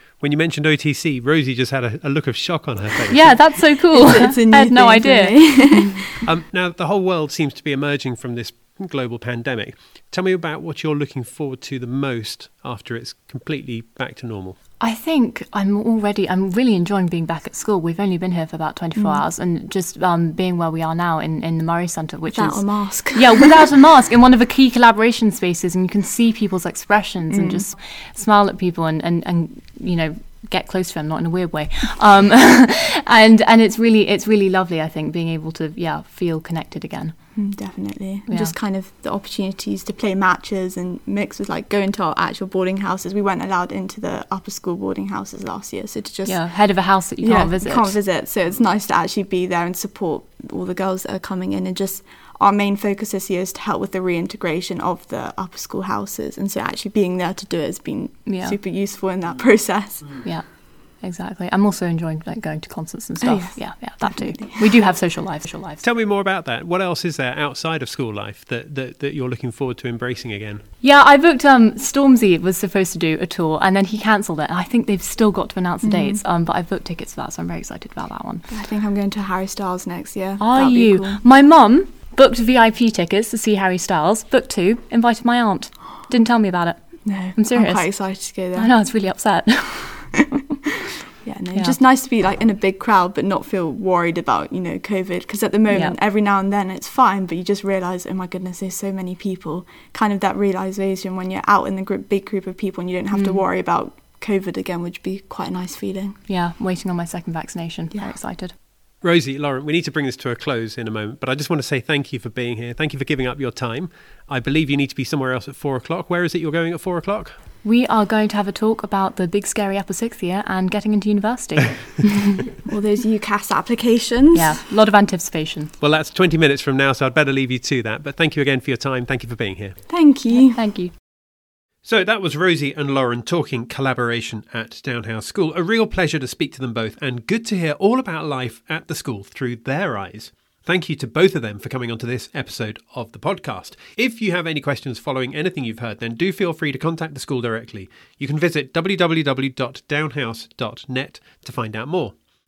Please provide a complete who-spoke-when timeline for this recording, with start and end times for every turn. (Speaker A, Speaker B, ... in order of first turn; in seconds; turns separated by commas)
Speaker A: 0.2-3.6, Speaker B: 3.1-6.0, Speaker C: 3.9-6.2, Speaker A: 6.3-14.6, Speaker B: 14.8-37.1, Speaker C: 19.0-19.2, Speaker C: 22.3-23.6, Speaker C: 27.3-27.6, Speaker C: 37.4-46.4, Speaker B: 38.3-38.5, Speaker B: 46.3-48.0, Speaker C: 47.2-60.2, Speaker B: 58.3-58.6, Speaker B: 61.0-65.8, Speaker C: 63.2-64.7, Speaker A: 65.8-70.6, Speaker B: 70.8-78.5, Speaker C: 75.8-76.2, Speaker C: 78.5-81.2, Speaker B: 80.4-90.1, Speaker C: 87.0-88.7, Speaker C: 91.2-106.2, Speaker B: 95.7-96.0, Speaker B: 103.1-103.4, Speaker B: 106.3-108.5, Speaker C: 107.9-108.2, Speaker A: 109.0-117.4, Speaker B: 117.6-122.4, Speaker C: 122.7-124.6, Speaker B: 124.3-125.7, Speaker A: 125.8-129.8, Speaker C: 129.9-130.6, Speaker B: 130.3-130.9, Speaker A: 131.8-152.2